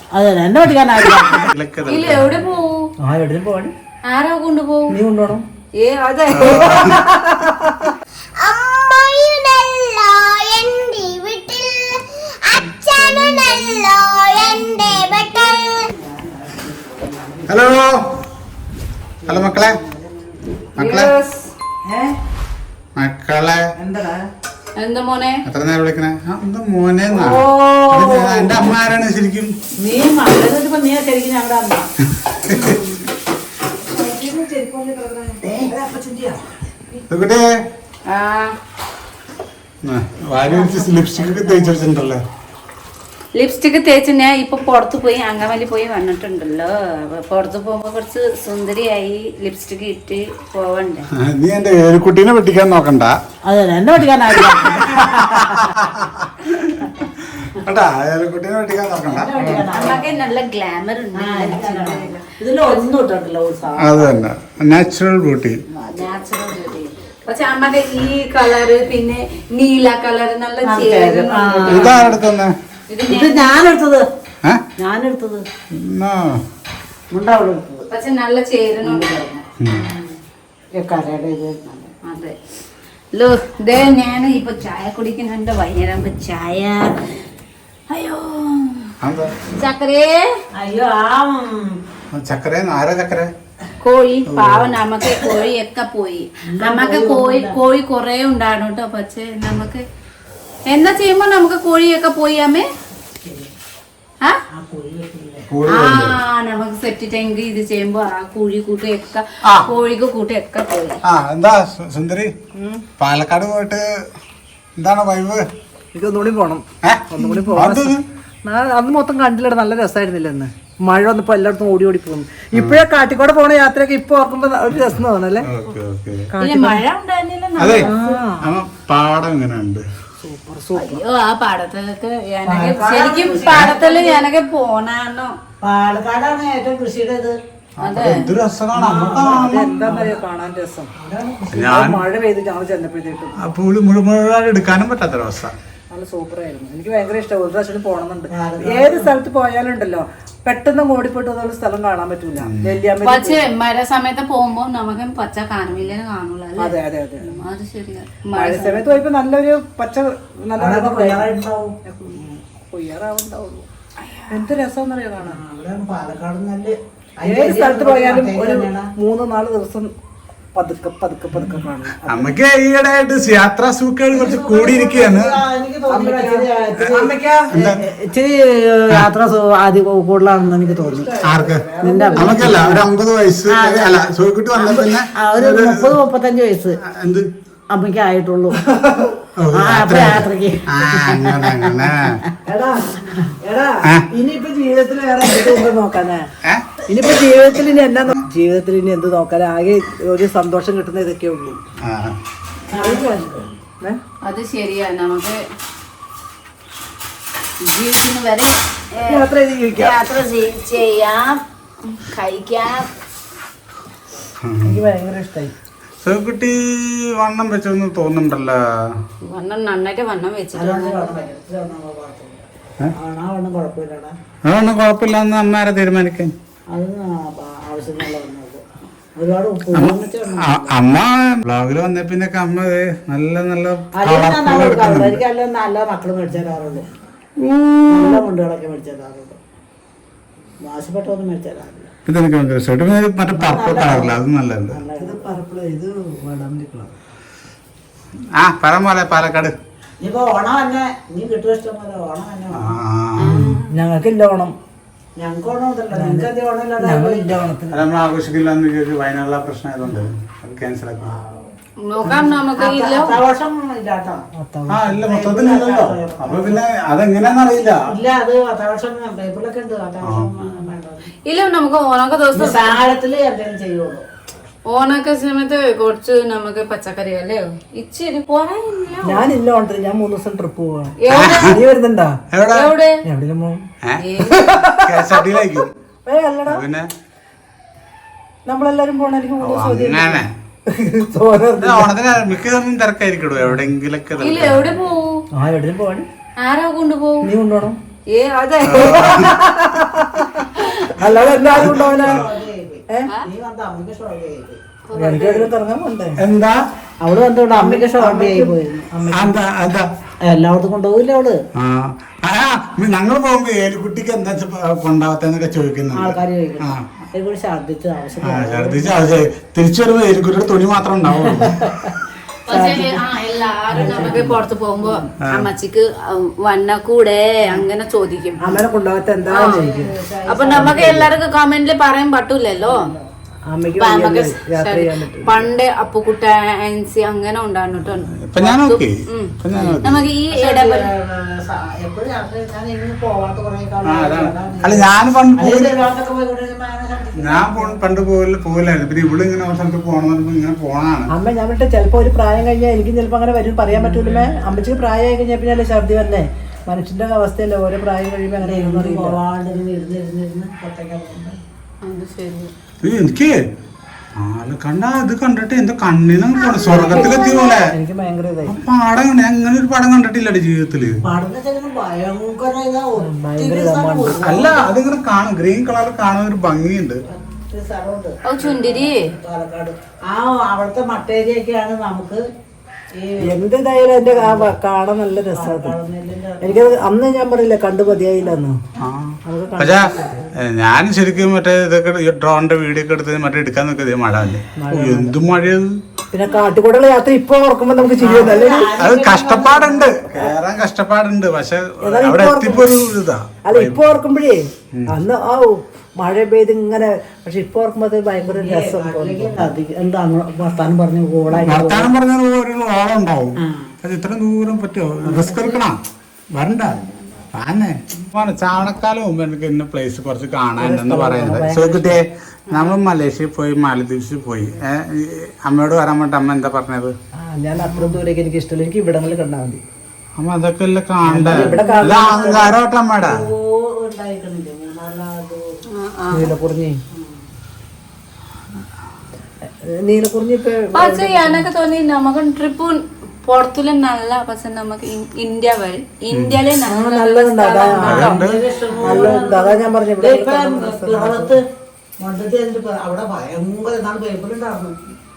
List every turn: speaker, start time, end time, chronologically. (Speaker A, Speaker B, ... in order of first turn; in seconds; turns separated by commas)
Speaker A: 0.1-1.5, Speaker B: 1.0-2.5, Speaker C: 1.9-2.8, Speaker D: 3.0-3.7, Speaker C: 4.1-5.0, Speaker D: 4.9-5.4, Speaker C: 5.8-6.6, Speaker B: 6.3-7.0, Speaker D: 6.5-7.7, Speaker E: 8.4-15.9, Speaker A: 16.0-17.5, Speaker B: 17.5-18.0, Speaker B: 19.2-19.8, Speaker A: 19.2-20.0, Speaker B: 20.8-21.1, Speaker C: 20.8-21.5, Speaker D: 21.9-22.2, Speaker B: 22.9-23.6, Speaker D: 23.8-24.2, Speaker C: 24.8-25.4, Speaker B: 25.4-29.5, Speaker A: 27.1-28.6, Speaker A: 29.8-31.9, Speaker B: 32.3-32.7, Speaker C: 32.5-33.0, Speaker D: 33.8-36.4, Speaker A: 35.4-35.8, Speaker B: 37.1-37.5, Speaker C: 38.1-38.5, Speaker B: 39.8-42.2, Speaker A: 40.4-42.0, Speaker C: 43.3-51.1, Speaker B: 51.2-53.2, Speaker A: 53.5-55.6, Speaker B: 54.7-59.6, Speaker A: 59.0-60.2, Speaker C: 59.4-62.9, Speaker A: 61.1-64.2, Speaker B: 63.8-65.6, Speaker A: 65.7-66.0, Speaker C: 65.9-72.1, Speaker A: 70.6-72.1, Speaker B: 71.6-72.5, Speaker C: 72.9-73.6, Speaker A: 73.1-74.0, Speaker A: 74.8-75.4, Speaker B: 75.7-76.4, Speaker A: 77.1-77.9, Speaker C: 77.9-79.1, Speaker A: 78.8-79.4, Speaker A: 80.7-81.9, Speaker C: 82.0-82.4, Speaker C: 83.1-87.0, Speaker C: 87.9-88.9, Speaker B: 89.0-89.3, Speaker C: 89.5-90.2, Speaker A: 90.5-91.8, Speaker B: 92.1-93.3, Speaker C: 93.8-99.8, Speaker B: 94.2-94.8, Speaker A: 96.5-97.6, Speaker C: 100.7-102.7, Speaker A: 103.2-103.5, Speaker A: 104.5-105.5, Speaker B: 105.5-106.2, Speaker C: 105.7-111.0, Speaker B: 111.0-112.3, Speaker B: 113.0-113.8, Speaker B: 114.8-115.5, Speaker D: 115.9-116.6, Speaker B: 116.8-118.0, Speaker D: 117.2-125.4, Speaker B: 122.5-122.8, Speaker B: 125.4-126.3, Speaker D: 126.3-126.6, Speaker C: 126.4-128.0, Speaker A: 126.5-126.8, Speaker B: 127.6-129.8, Speaker A: 127.8-128.2, Speaker D: 130.2-131.0, Speaker C: 130.7-135.3, Speaker A: 132.4-134.3, Speaker A: 135.6-137.3, Speaker B: 137.8-139.9, Speaker C: 137.8-138.3, Speaker A: 138.7-140.2, Speaker D: 139.4-140.9, Speaker A: 141.0-141.8, Speaker B: 141.5-142.1, Speaker D: 141.8-143.4, Speaker B: 143.3-145.5, Speaker D: 145.9-153.5, Speaker A: 148.3-149.2, Speaker B: 152.3-152.8, Speaker C: 152.9-158.9, Speaker D: 156.6-157.2, Speaker D: 158.3-163.7, Speaker A: 158.6-159.0, Speaker A: 160.5-161.7, Speaker C: 164.0-164.5, Speaker D: 164.3-165.4, Speaker A: 165.2-168.9, Speaker D: 167.2-169.9, Speaker D: 170.5-172.3, Speaker A: 171.3-171.7, Speaker B: 172.0-175.4, Speaker A: 174.1-181.3, Speaker D: 175.9-176.4, Speaker D: 176.9-177.4, Speaker B: 177.5-177.8, Speaker D: 180.6-182.3, Speaker B: 181.2-186.0, Speaker A: 181.8-182.8, Speaker A: 183.5-186.8, Speaker B: 186.8-187.3, Speaker A: 187.7-188.6, Speaker D: 188.7-189.1, Speaker B: 189.4-192.2, Speaker A: 189.5-193.2, Speaker D: 192.5-192.8, Speaker D: 193.4-196.2, Speaker A: 195.2-195.8, Speaker A: 196.9-197.7, Speaker D: 197.1-201.6, Speaker B: 201.8-202.2, Speaker A: 202.7-203.5, Speaker D: 202.9-204.0, Speaker C: 204.2-205.4, Speaker C: 207.6-212.9, Speaker D: 209.1-209.9, Speaker B: 214.4-214.9, Speaker D: 214.7-215.5, Speaker B: 216.0-218.6, Speaker C: 219.2-221.2, Speaker A: 220.5-224.1, Speaker B: 224.5-226.3, Speaker A: 226.7-228.6, Speaker A: 229.2-230.7, Speaker B: 229.7-235.2, Speaker A: 234.0-236.9, Speaker B: 237.4-238.2, Speaker A: 237.9-239.4, Speaker A: 240.6-241.9, Speaker B: 242.1-244.8, Speaker A: 243.3-244.2, Speaker A: 244.7-245.4, Speaker D: 245.0-246.9, Speaker B: 248.3-249.6, Speaker A: 250.0-253.6, Speaker B: 252.5-253.4, Speaker C: 253.3-253.7, Speaker D: 253.3-254.5, Speaker A: 255.2-257.5, Speaker D: 255.9-256.3, Speaker D: 256.8-257.8, Speaker B: 257.7-261.2, Speaker C: 261.9-263.2, Speaker A: 262.0-264.2, Speaker D: 264.4-264.9, Speaker B: 264.7-267.9, Speaker A: 264.9-266.6, Speaker A: 267.9-271.1, Speaker B: 270.0-270.4, Speaker C: 271.2-272.8, Speaker A: 272.3-274.0, Speaker C: 274.7-279.4, Speaker D: 279.0-280.9, Speaker C: 281.0-281.7, Speaker B: 281.1-281.6, Speaker D: 281.5-282.1, Speaker B: 282.3-282.7, Speaker C: 282.5-283.0, Speaker D: 283.1-283.6, Speaker B: 283.8-285.7, Speaker C: 284.0-284.6, Speaker D: 284.3-284.9, Speaker D: 286.0-286.6, Speaker B: 286.4-286.9, Speaker D: 288.4-290.2, Speaker B: 289.4-290.3, Speaker D: 290.7-291.9, Speaker B: 291.6-294.8, Speaker C: 294.2-295.2, Speaker D: 295.4-296.1, Speaker C: 296.4-297.4, Speaker D: 297.2-297.7, Speaker C: 298.1-299.2, Speaker B: 298.6-299.4, Speaker D: 299.2-300.3, Speaker A: 301.0-304.6, Speaker D: 301.0-302.1, Speaker B: 301.0-302.3, Speaker C: 304.9-305.6, Speaker D: 304.9-306.1, Speaker B: 306.2-306.6, Speaker A: 307.0-308.9, Speaker D: 307.6-309.3, Speaker B: 309.0-309.9, Speaker A: 310.2-311.4, Speaker B: 311.6-316.8, Speaker A: 315.9-319.1, Speaker B: 318.2-321.6, Speaker A: 321.4-321.9, Speaker C: 322.5-328.4, Speaker A: 322.5-323.1, Speaker A: 323.7-325.0, Speaker D: 328.4-329.9, Speaker A: 329.2-331.1, Speaker C: 329.3-329.7, Speaker C: 330.2-332.8, Speaker A: 332.6-333.1, Speaker D: 333.5-335.5, Speaker C: 333.7-340.9, Speaker B: 338.2-340.1, Speaker A: 340.3-347.7, Speaker B: 343.8-345.8, Speaker B: 347.2-351.1, Speaker D: 351.1-359.2, Speaker A: 353.7-354.6, Speaker A: 358.3-361.4, Speaker C: 361.8-362.5, Speaker B: 362.8-363.4, Speaker B: 364.1-367.7, Speaker E: 366.4-367.7, Speaker A: 366.7-367.3, Speaker D: 367.8-368.5, Speaker B: 368.4-371.0, Speaker A: 371.0-374.7, Speaker D: 373.0-374.2, Speaker B: 374.1-377.0, Speaker A: 377.1-382.2, Speaker C: 378.2-379.0, Speaker A: 382.9-384.6, Speaker D: 383.2-385.7, Speaker A: 385.1-386.9, Speaker D: 386.4-388.6, Speaker A: 387.9-388.4, Speaker B: 388.8-395.8, Speaker D: 389.3-390.3, Speaker D: 394.6-395.2, Speaker D: 396.1-398.7, Speaker A: 397.9-399.9, Speaker B: 398.0-404.0, Speaker D: 401.8-402.7, Speaker D: 403.4-409.4, Speaker A: 408.1-411.9, Speaker B: 411.3-415.8, Speaker A: 413.4-413.7, Speaker A: 415.0-415.6, Speaker B: 416.3-416.8, Speaker B: 417.3-426.9, Speaker D: 420.6-421.9, Speaker D: 427.2-429.6, Speaker C: 427.5-428.0, Speaker B: 430.2-433.2, Speaker D: 431.1-432.5, Speaker A: 431.3-435.6, Speaker C: 435.7-436.4, Speaker D: 436.1-436.8, Speaker A: 436.9-437.2, Speaker D: 439.7-441.5, Speaker C: 440.7-448.2, Speaker B: 446.1-446.4, Speaker D: 446.7-447.9, Speaker B: 447.8-449.1, Speaker A: 447.9-451.4, Speaker D: 448.9-451.3, Speaker A: 452.0-454.8